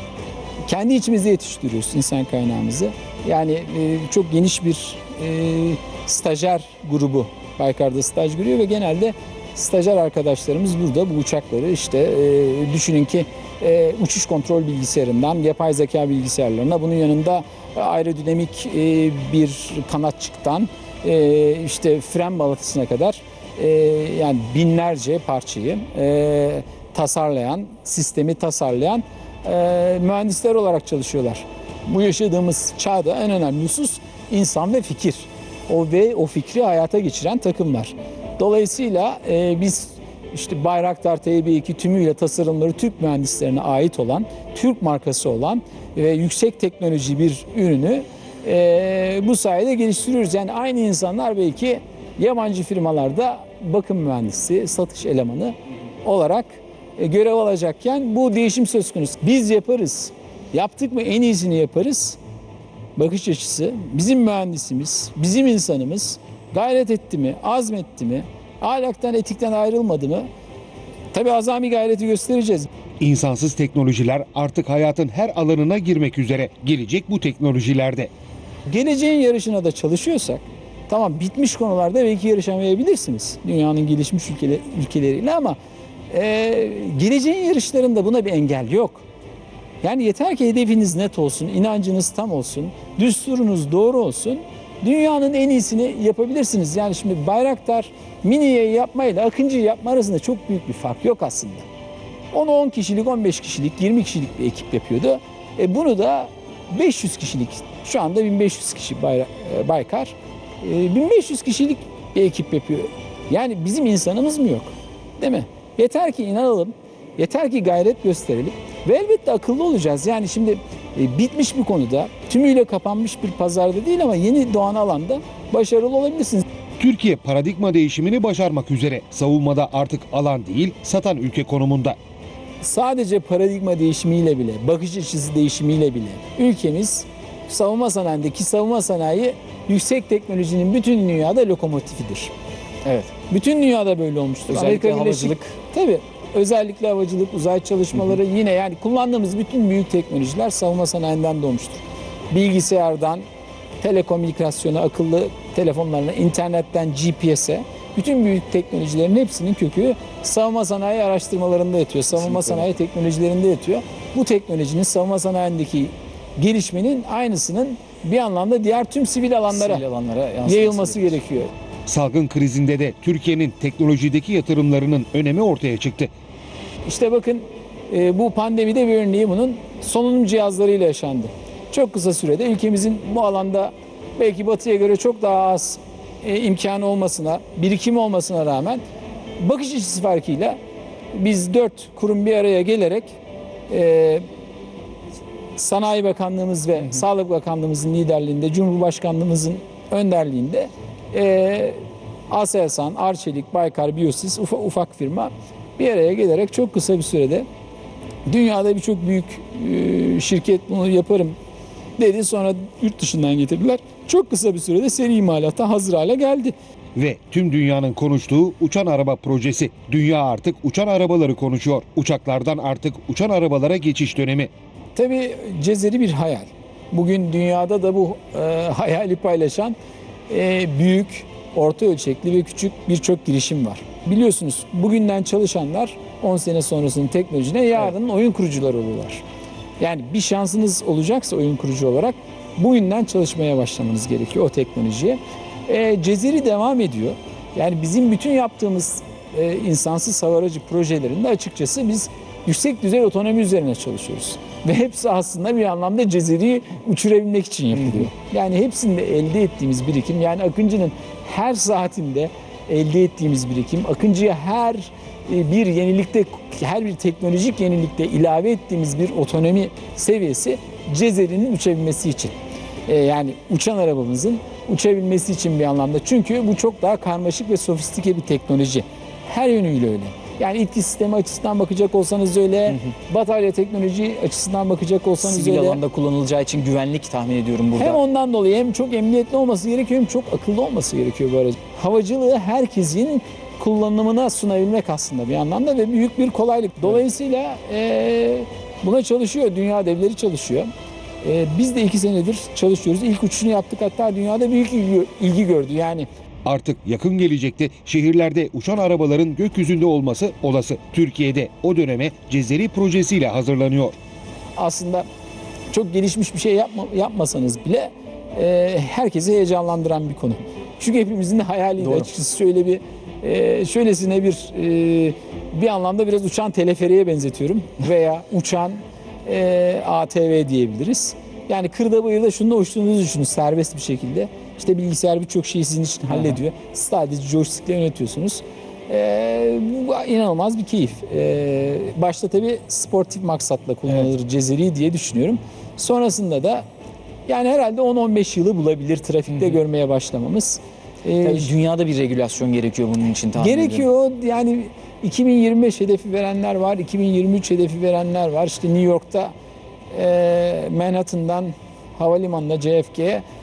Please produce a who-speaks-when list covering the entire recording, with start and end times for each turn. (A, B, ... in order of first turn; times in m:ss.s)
0:00.6-1:02.2 A
1:03.0-1:10.3 A
1:11.1-1:12.7 A
1:13.0-1:18.1 B
1:18.7-1:25.6 A
1:26.1-1:29.0 A
1:29.8-1:41.6 A
1:42.3-2:06.4 A
2:06.8-2:12.0 B
2:12.6-2:22.3 A
2:22.8-2:23.1 C
2:23.3-2:33.2 A
2:24.5-2:25.5 C
2:33.8-2:49.8 A
2:42.2-2:42.7 C
2:49.5-2:51.2 C
2:50.4-2:51.5 A
2:51.9-2:56.1 B
2:56.8-3:08.8 A
3:09.4-3:10.6 A
3:11.1-3:13.2 A
3:13.7-3:14.2 A
3:15.6-3:21.8 A
3:22.3-3:27.5 A
3:28.3-3:31.4 A
3:32.0-3:36.6 A
3:37.0-3:44.5 B
3:45.0-3:49.8 A
3:50.3-3:59.2 A
3:59.8-4:32.3 A
4:32.9-4:45.8 A
4:45.2-4:48.0 C
4:47.8-5:00.7 A
5:01.2-5:06.1 A
5:06.4-5:14.0 B
5:14.6-5:15.0 A
5:15.7-5:46.6 A
5:47.3-5:51.5 A
5:51.2-5:53.9 C
5:53.4-5:59.3 A
5:59.9-6:03.2 A